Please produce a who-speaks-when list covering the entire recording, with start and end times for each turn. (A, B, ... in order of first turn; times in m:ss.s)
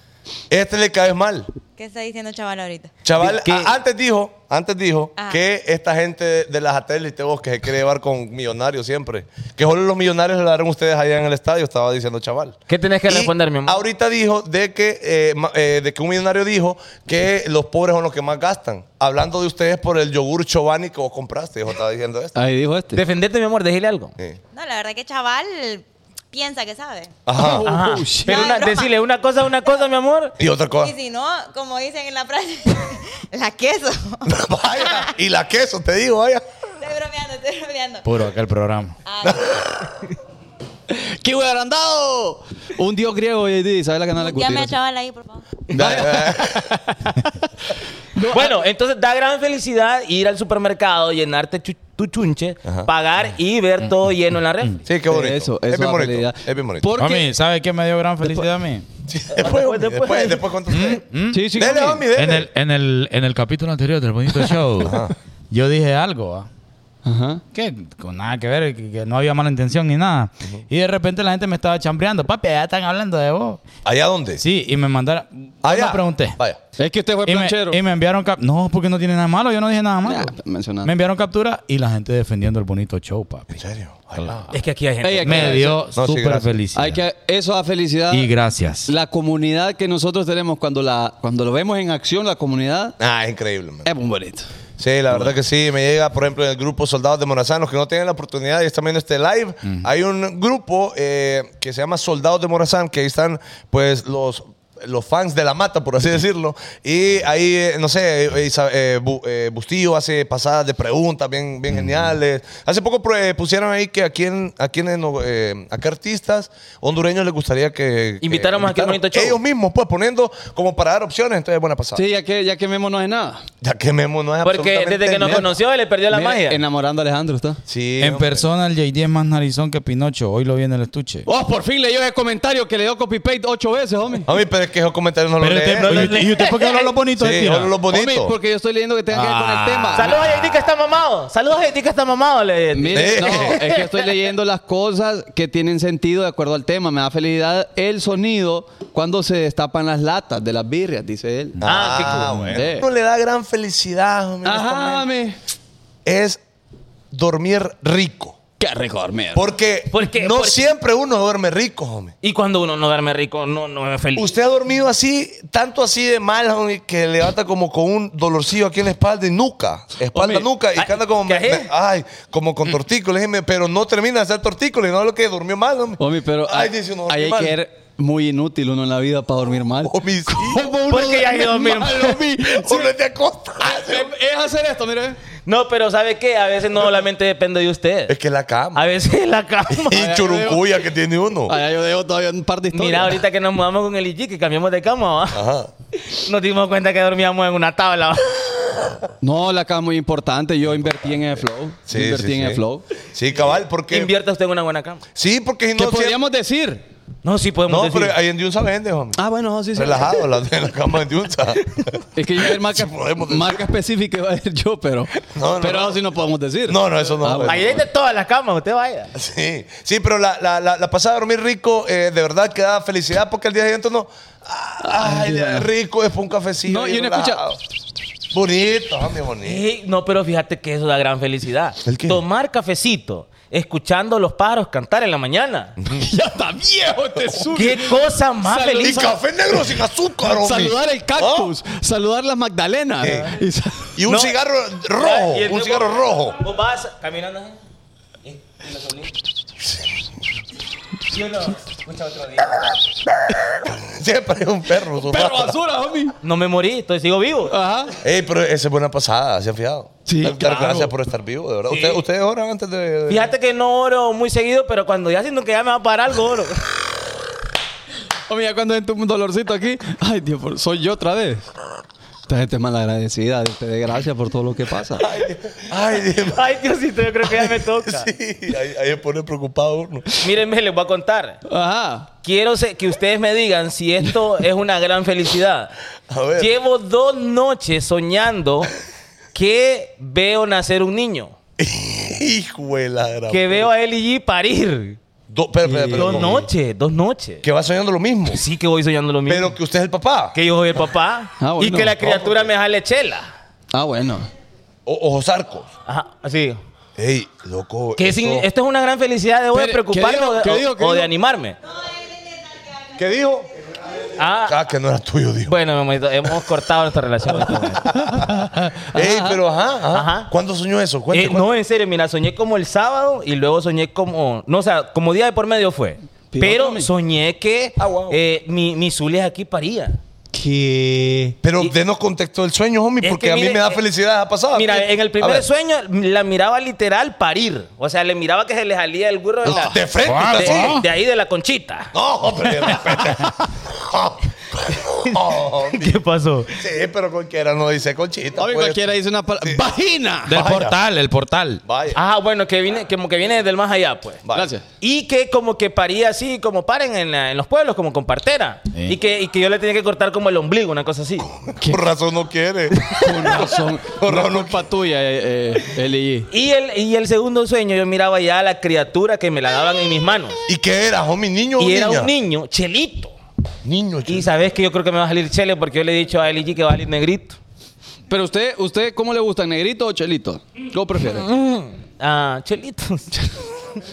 0:00.5-0:01.5 A
0:01.8-0:02.9 B
0:03.0-0:12.6 A
0:03.2-0:03.7 C
0:12.7-0:13.8 C
0:13.1-0:22.4 A
0:22.4-0:23.0 D
0:22.9-0:24.1 C
0:24.5-0:27.1 B
0:27.2-0:27.7 A
0:27.4-0:28.6 D
0:27.6-0:30.4 C
0:28.2-0:28.9 B
0:30.4-0:30.9 A
0:30.8-0:35.1 B
0:34.2-0:36.4 A
0:36.8-0:38.1 B
0:38.0-0:39.0 E
0:39.1-0:39.7 B
0:39.2-0:40.0 A
0:40.9-0:44.8 D
0:44.2-0:45.7 B
0:45.7-0:46.8 A
0:45.7-0:46.6 D
0:48.1-0:48.6 D
0:48.3-0:54.8 C
0:54.9-0:56.9 A
0:55.1-0:57.3 D
0:57.0-0:58.9 E
0:58.2-0:58.5 D
0:59.1-1:01.0 A
0:59.4-1:00.4 C
1:00.7-1:01.5 E
1:01.3-1:02.0 D
1:01.5-1:02.5 A
1:02.1-1:06.5 E
1:04.8-1:05.1 A
1:07.0-1:07.4 D
1:07.5-1:13.6 E
1:13.8-1:14.4 A
1:14.4-1:16.4 E
1:15.6-1:16.6 A
1:16.8-1:17.8 D
1:17.2-1:23.6 E
1:20.0-1:20.9 D
1:23.5-1:24.6 A
1:24.5-1:25.7 C
1:25.0-1:25.8 D
1:25.2-1:27.0 E
1:25.8-1:26.6 A
1:26.7-1:28.3 D
1:28.1-1:28.9 E
1:28.9-1:33.0 D
1:33.0-1:33.9 A
1:33.8-1:34.5 D
1:34.8-2:02.0 A
1:58.2-1:59.4 C
2:01.9-2:03.4 D
2:03.6-2:05.5 A
2:04.4-2:06.6 C
2:05.2-2:05.5 D
2:06.1-2:07.6 D
2:07.7-2:08.4 A
2:08.0-2:11.3 E
2:11.2-2:14.3 D
2:14.2-2:16.3 A
2:15.4-2:17.7 E
2:15.8-2:16.9 C
2:17.1-2:18.4 A
2:17.9-2:20.1 D
2:19.1-2:20.2 E
2:19.9-2:24.1 C
2:22.7-2:31.6 D
2:22.9-2:23.6 A
2:31.6-2:35.1 A
2:31.6-2:32.5 C
2:32.4-2:32.8 D
2:34.4-2:35.4 D
2:36.0-2:36.4 A
2:37.1-2:38.4 A
2:38.6-2:39.5 D
2:39.4-2:42.1 A
2:39.9-2:40.7 C
2:42.2-2:44.3 C
2:44.1-2:57.6 A
2:50.1-2:50.5 D
2:50.8-2:51.7 C
2:56.0-3:02.9 D
2:59.8-3:00.7 A
3:00.9-3:02.2 C
3:02.4-3:04.1 A
3:03.6-3:05.2 D
3:05.4-3:08.1 C
3:08.1-3:08.9 A
3:08.7-3:10.1 C
3:09.7-3:11.6 A
3:09.9-3:10.7 D
3:11.4-3:13.2 D
3:12.7-3:15.4 C
3:15.3-3:15.7 A
3:16.0-3:19.0 C
3:19.2-3:22.9 D
3:20.7-3:24.1 A
3:23.9-3:25.0 C
3:25.1-3:26.2 A
3:25.7-3:26.8 D
3:27.2-3:28.1 C
3:27.7-3:29.2 A
3:29.2-3:30.2 D
3:29.7-3:33.6 A
3:32.1-3:37.6 D
3:35.2-3:36.0 A
3:36.7-3:37.8 A
3:37.4-3:39.1 C
3:39.1-3:47.6 A
3:44.8-3:45.7 D
3:46.7-3:47.4 D
3:48.3-3:49.6 A
3:49.4-3:55.8 C
3:51.9-3:52.2 A
3:55.9-3:59.6 D
3:57.5-3:59.1 C
3:58.8-4:01.5 A
4:00.2-4:04.0 D
4:03.0-4:03.3 A
4:04.0-4:06.4 A
4:04.1-4:04.4 C
4:05.0-4:07.6 C
4:08.2-4:09.1 C
4:11.1-4:12.7 C
4:13.6-4:15.6 A
4:15.0-4:16.2 D
4:16.2-4:17.6 C
4:17.5-4:17.9 D
4:18.0-4:23.3 A
4:20.1-4:20.9 D
4:21.7-4:22.0 C
4:23.1-4:26.7 C
4:28.3-4:31.5 D
4:32.3-4:35.1 D
4:35.0-4:36.6 A
4:36.2-4:38.1 C
4:37.2-4:40.2 A
4:40.1-4:41.4 C
4:41.5-4:42.1 D
4:42.2-4:45.7 C
4:46.1-4:46.5 A
4:46.4-4:48.7 C
4:49.3-4:51.3 C
4:51.6-4:53.7 A
4:53.3-4:55.0 C
4:55.3-4:56.5 A
4:55.6-4:56.3 D
4:56.0-4:57.4 C
4:57.4-4:58.4 A
4:58.3-4:59.6 C
4:59.3-5:00.4 A
5:00.3-5:03.3 C
5:01.4-5:02.0 D
5:02.0-5:02.5 A
5:03.7-5:04.3 D
5:04.9-5:05.7 A
5:05.9-5:06.6 C
5:07.0-5:08.5 A
5:08.0-5:11.6 C
5:09.5-5:11.1 D
5:11.7-5:13.0 B
5:13.0-5:13.5 A
5:14.2-5:14.6 C
5:14.4-5:15.6 A
5:15.4-5:17.8 C
5:17.4-5:21.5 A
5:17.9-5:19.4 D
5:19.9-5:20.3 C
5:21.1-5:30.0 C
5:26.3-5:26.9 D
5:27.8-5:28.2 A
5:30.3-5:31.4 D
5:31.4-5:35.4 A
5:33.0-5:33.8 C
5:34.5-5:41.9 C
5:39.4-5:40.8 A
5:39.5-5:39.8 D
5:40.0-5:40.8 E
5:41.9-5:46.0 A
5:45.0-5:46.6 C
5:46.6-5:48.8 A
5:48.4-5:50.4 D
5:50.3-5:50.8 A
5:50.3-5:51.6 E
5:51.6-5:52.0 A
5:51.9-5:54.2 C
5:54.2-5:54.5 A
5:54.3-5:54.6 D
5:54.8-6:01.3 C
6:01.2-6:02.9 A
6:01.6-6:01.8 D
6:02.8-6:03.4 C
6:03.0-6:06.3 D
6:03.9-6:04.6 A
6:06.3-6:10.4 C
6:10.5-6:12.1 A
6:11.6-6:13.1 C
6:13.6-6:14.3 A
6:14.1-6:17.4 C
6:18.1-6:21.3 D
6:21.0-6:23.2 C